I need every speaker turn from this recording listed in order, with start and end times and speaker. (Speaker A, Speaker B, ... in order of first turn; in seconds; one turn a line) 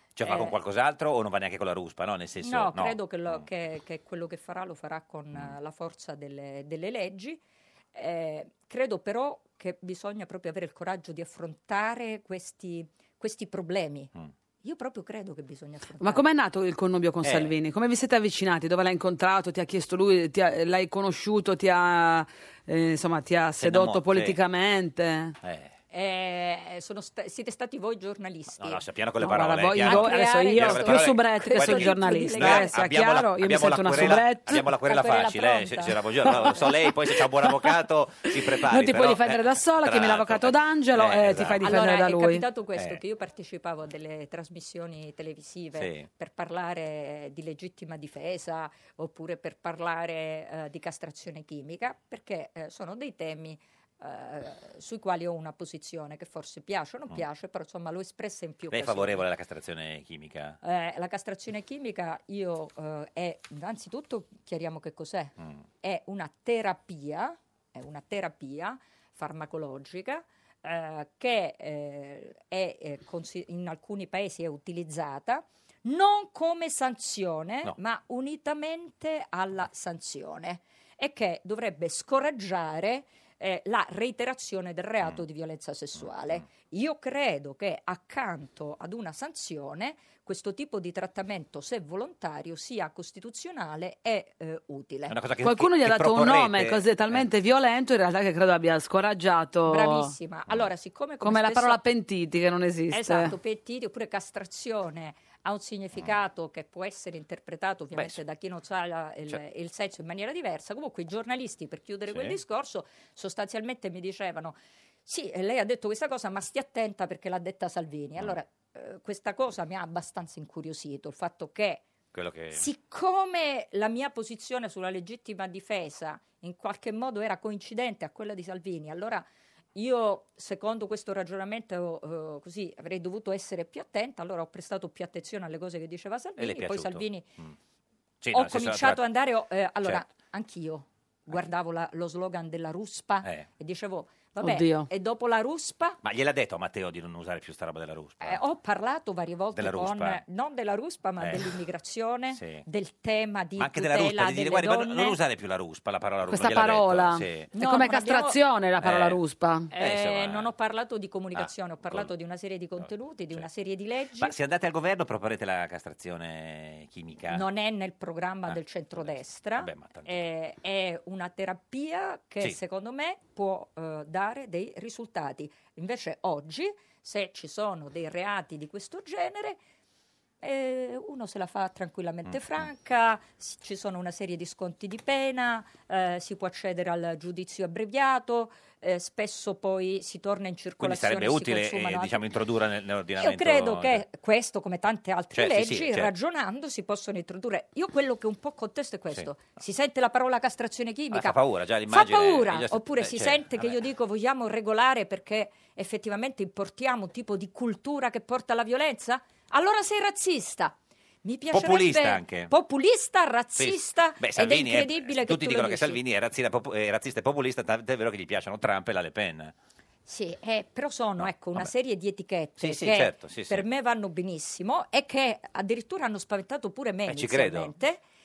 Speaker A: 0.2-3.4
Speaker B: 0.2-0.6
Speaker B: 2.4-7.4
Speaker B: 7.9-14.1
Speaker B: 14.6-16.2
Speaker C: 16.0-25.4
Speaker A: 17.2-17.5
Speaker A: 23.6-24.4
Speaker A: 25.4-25.7
Speaker B: 25.9-28.8
Speaker A: 28.6-41.7
Speaker C: 29.2-34.6
Speaker B: 29.8-32.8
Speaker B: 34.8-36.6
Speaker C: 37.2-37.6
Speaker C: 38.5-42.5
Speaker B: 41.6-59.3
Speaker A: 45.8-46.1
Speaker A: 58.7-60.6
Speaker B: 60.6-95.2
Speaker A: 95.1-97.2
Speaker C: 95.4-100.1
Speaker B: 99.7-101.8
Speaker C: 101.2-103.3
Speaker B: 102.9-121.8
Speaker A: 112.1-112.4
Speaker A: 122.1-122.7
Speaker B: 122.5-137.3
Speaker A: 136.4-137.5
Speaker A: 138.2-139.0
Speaker B: 138.3-146.0
Speaker C: 144.4-144.9
Speaker A: 146.0-148.4
Speaker B: 148.2-155.2
Speaker A: 149.6-150.2
Speaker A: 151.2-151.6
Speaker A: 152.3-152.6
Speaker A: 153.6-157.5
Speaker C: 156.3-159.7
Speaker B: 157.5-158.4
Speaker A: 158.8-159.2
Speaker B: 159.7-164.3
Speaker A: 159.8-160.5
Speaker A: 161.3-162.1
Speaker A: 162.8-163.5
Speaker A: 164.2-167.4
Speaker B: 167.3-179.6
Speaker A: 168.5-170.3
Speaker B: 180.4-192.2
Speaker A: 190.8-194.1
Speaker B: 193.2-216.0
Speaker A: 195.3-196.1
Speaker A: 201.1-203.8
Speaker A: 211.5-212.5
Speaker A: 213.6-219.5
Speaker B: 220.1-228.0
Speaker A: 221.2-221.7
Speaker A: 222.6-223.7
Speaker A: 227.1-227.7